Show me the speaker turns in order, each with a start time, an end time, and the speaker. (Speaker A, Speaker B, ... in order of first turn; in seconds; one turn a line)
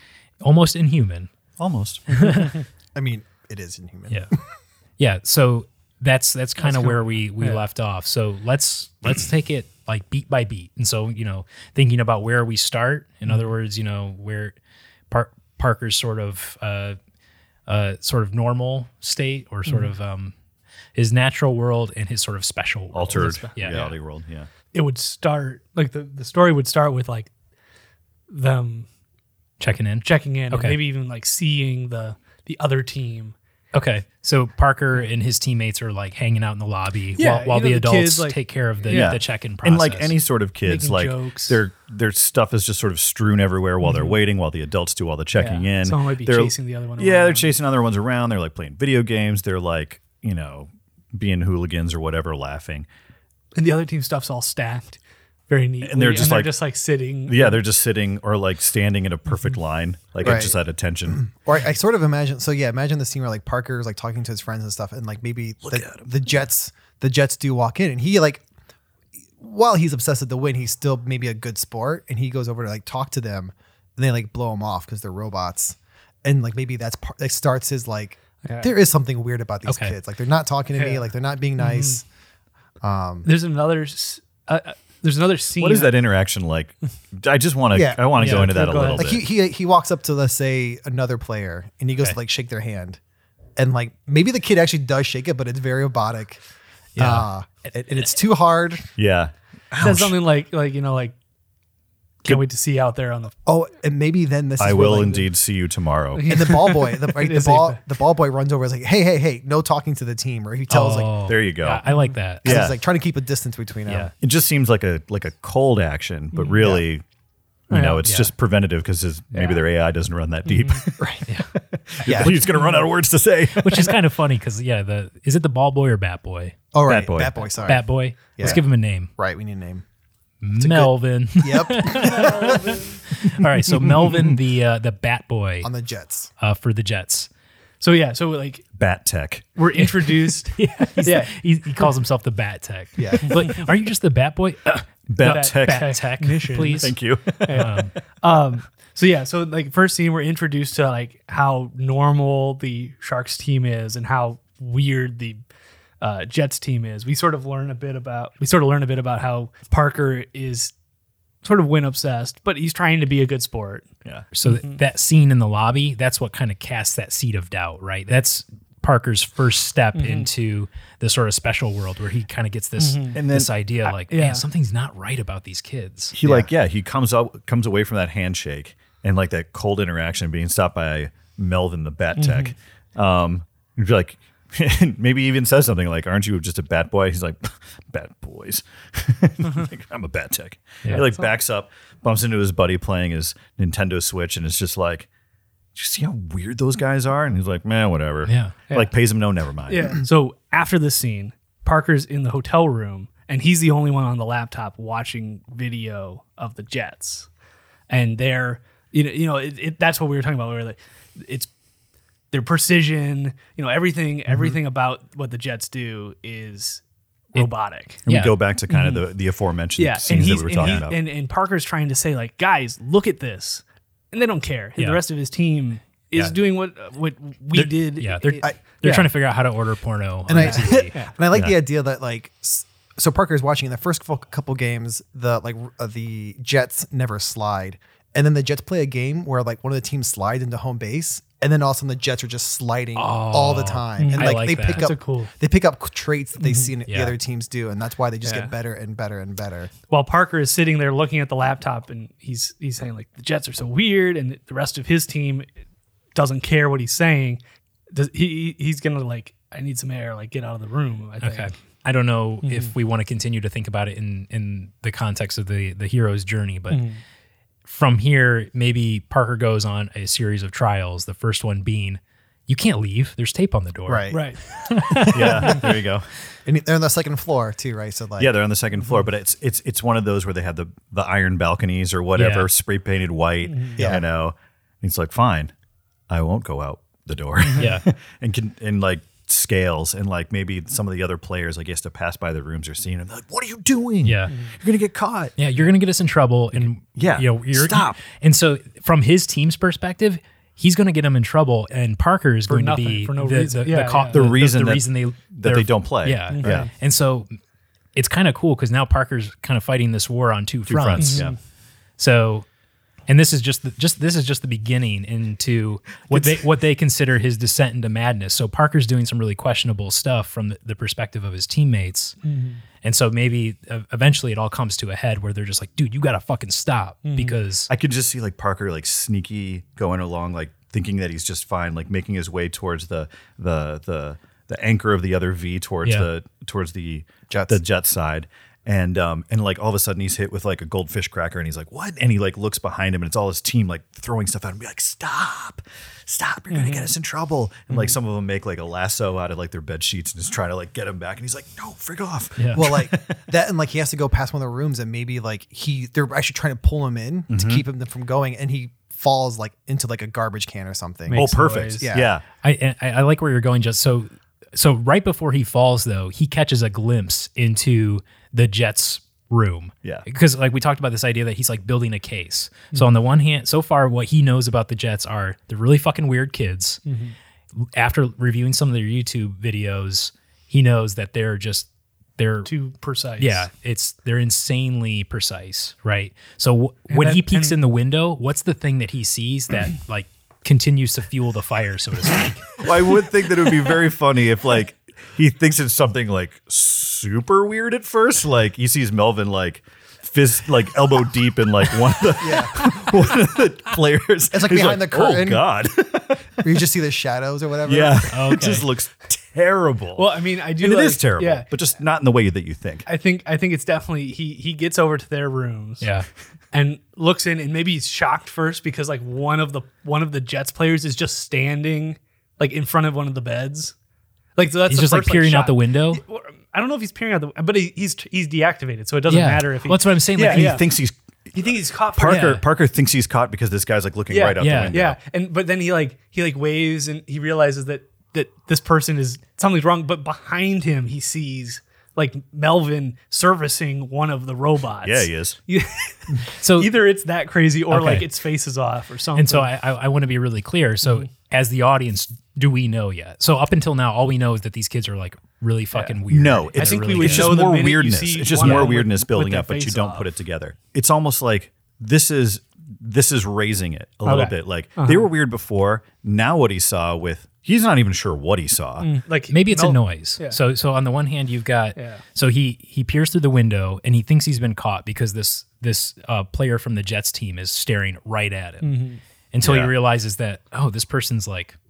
Speaker A: 0.4-1.3
Speaker B: 1.6-2.1
Speaker A: 2.1-2.5
Speaker C: 2.9-4.2
Speaker A: 5.0-14.6
Speaker D: 6.6-7.6
Speaker A: 15.1-17.0
Speaker A: 17.7-20.3
Speaker A: 20.9-23.9
Speaker B: 22.9-24.5
Speaker D: 23.1-23.8
Speaker D: 24.7-27.3
Speaker D: 28.3-28.9
Speaker A: 29.6-30.8
Speaker D: 30.0-33.3
Speaker A: 33.7-40.1
Speaker D: 37.2-39.1
Speaker B: 38.9-52.9
Speaker D: 40.6-41.6
Speaker D: 43.8-44.2
Speaker D: 45.4-47.5
Speaker D: 53.5-55.0
Speaker D: 55.5-57.6
Speaker B: 55.8-56.5
Speaker B: 57.3-61.2
Speaker C: 60.2-60.5
Speaker C: 61.1-68.4
Speaker B: 65.6-66.0
Speaker C: 69.4-82.0
Speaker D: 78.4-78.7
Speaker A: 79.7-80.0
Speaker D: 80.7-82.0
Speaker C: 82.8-83.3
Speaker D: 83.2-85.9
Speaker B: 85.6-89.2
Speaker C: 87.7-93.0
Speaker D: 88.2-89.2
Speaker A: 88.2-88.5
Speaker C: 93.6-96.4
Speaker A: 97.0-97.3
Speaker C: 97.0-98.9
Speaker B: 99.0-100.2
Speaker D: 99.8-101.1
Speaker D: 102.2-103.3
Speaker C: 103.5-105.3
Speaker B: 104.6-106.3
Speaker D: 106.1-107.8
Speaker C: 106.3-111.2
Speaker A: 110.7-112.6
Speaker B: 111.3-111.8
Speaker B: 112.4-112.8
Speaker C: 112.4-114.1
Speaker B: 114.2-117.0
Speaker D: 116.3-116.6
Speaker C: 116.6-116.8
Speaker D: 117.7-118.0
Speaker B: 117.7-124.0
Speaker A: 118.0-118.3
Speaker D: 120.5-120.8
Speaker C: 121.0-121.2
Speaker C: 122.0-122.4
Speaker A: 123.5-126.6
Speaker C: 126.7-129.8
Speaker B: 126.8-127.5
Speaker A: 127.6-129.1
Speaker A: 130.4-135.7
Speaker C: 130.6-132.9
Speaker D: 132.0-132.8
Speaker B: 133.8-134.3
Speaker C: 135.6-136.3
Speaker A: 136.4-137.3
Speaker D: 137.8-138.6
Speaker B: 138.8-139.4
Speaker D: 139.6-141.9
Speaker A: 139.8-146.9
Speaker C: 143.0-143.6
Speaker B: 145.1-145.9
Speaker D: 145.2-155.4
Speaker B: 146.8-147.8
Speaker A: 147.5-147.9
Speaker D: 156.0-160.7
Speaker D: 161.4-163.9
Speaker A: 164.3-176.2
Speaker D: 164.4-164.8
Speaker D: 169.9-170.3
Speaker D: 172.8-173.2
Speaker B: 173.1-173.5
Speaker D: 173.8-174.4
Speaker B: 176.1-195.1
Speaker C: 176.2-176.5
Speaker D: 182.2-182.5
Speaker D: 190.9-191.2
Speaker B: 195.7-200.0
Speaker A: 198.2-198.5
Speaker D: 199.7-207.3
Speaker D: 207.9-211.5
Speaker D: 212.3-216.8
Speaker D: 217.3-218.0
Speaker A: 218.1-218.3
Speaker B: 218.1-221.0
Speaker D: 218.7-219.1
Speaker D: 219.8-229.1
Speaker A: 227.9-230.9
Speaker C: 228.4-229.0
Speaker C: 230.3-249.7
Speaker D: 230.3-231.1
Speaker A: 242.9-244.9
Speaker D: 244.0-245.3
Speaker D: 246.4-246.7
Speaker A: 246.9-247.2
Speaker D: 248.2-248.5
Speaker D: 249.9-255.4
Speaker D: 256.1-257.4
Speaker D: 257.9-261.5
Speaker A: 261.2-266.9
Speaker D: 262.4-262.7
Speaker D: 266.7-267.0
Speaker A: 267.6-275.6
Speaker C: 273.9-274.3
Speaker D: 274.1-274.4
Speaker C: 274.9-275.5
Speaker B: 275.1-276.1
Speaker C: 276.4-278.3
Speaker B: 278.2-285.5
Speaker A: 282.1-282.5
Speaker D: 283.4-283.9
Speaker C: 283.8-284.0
Speaker B: 286.1-295.4
Speaker D: 287.4-287.7
Speaker A: 287.5-287.8
Speaker A: 294.0-294.3
Speaker A: 295.4-307.3
Speaker B: 296.9-298.0
Speaker D: 302.5-304.2
Speaker B: 304.1-306.7
Speaker D: 306.3-306.7
Speaker A: 307.9-311.3
Speaker B: 310.7-311.4
Speaker D: 311.0-311.4
Speaker A: 312.0-312.4
Speaker A: 313.1-322.1
Speaker D: 322.2-322.6
Speaker A: 322.8-327.7
Speaker D: 327.0-327.4
Speaker B: 327.7-353.2
Speaker C: 337.3-337.6
Speaker D: 346.5-346.9
Speaker A: 352.4-352.6
Speaker C: 352.5-362.1
Speaker B: 357.3-357.6
Speaker D: 361.1-361.9
Speaker B: 361.1-362.2
Speaker A: 362.4-376.8
Speaker D: 376.8-377.1
Speaker A: 377.6-382.5
Speaker D: 382.4-383.5
Speaker A: 383.2-392.5
Speaker D: 386.9-387.6
Speaker B: 392.6-406.6
Speaker C: 402.2-402.7
Speaker C: 404.3-405.4
Speaker C: 406.4-408.1
Speaker B: 407.6-412.9
Speaker A: 408.1-408.7
Speaker D: 409.9-411.5
Speaker D: 412.9-415.9
Speaker A: 415.8-416.1
Speaker D: 416.5-423.7
Speaker D: 424.4-430.7
Speaker A: 424.7-426.0
Speaker A: 429.1-430.6
Speaker B: 430.2-435.0
Speaker D: 431.4-432.4
Speaker D: 434.1-449.5
Speaker A: 434.4-434.7
Speaker B: 444.8-445.4
Speaker A: 446.4-446.7
Speaker A: 447.7-448.1
Speaker A: 449.1-457.4
Speaker B: 456.1-468.9
Speaker D: 456.5-460.1
Speaker A: 458.4-458.7
Speaker D: 464.0-465.1
Speaker D: 468.8-470.4
Speaker A: 469.3-478.8
Speaker D: 471.8-472.0
Speaker D: 478.6-479.0
Speaker A: 479.3-481.6
Speaker B: 479.4-479.7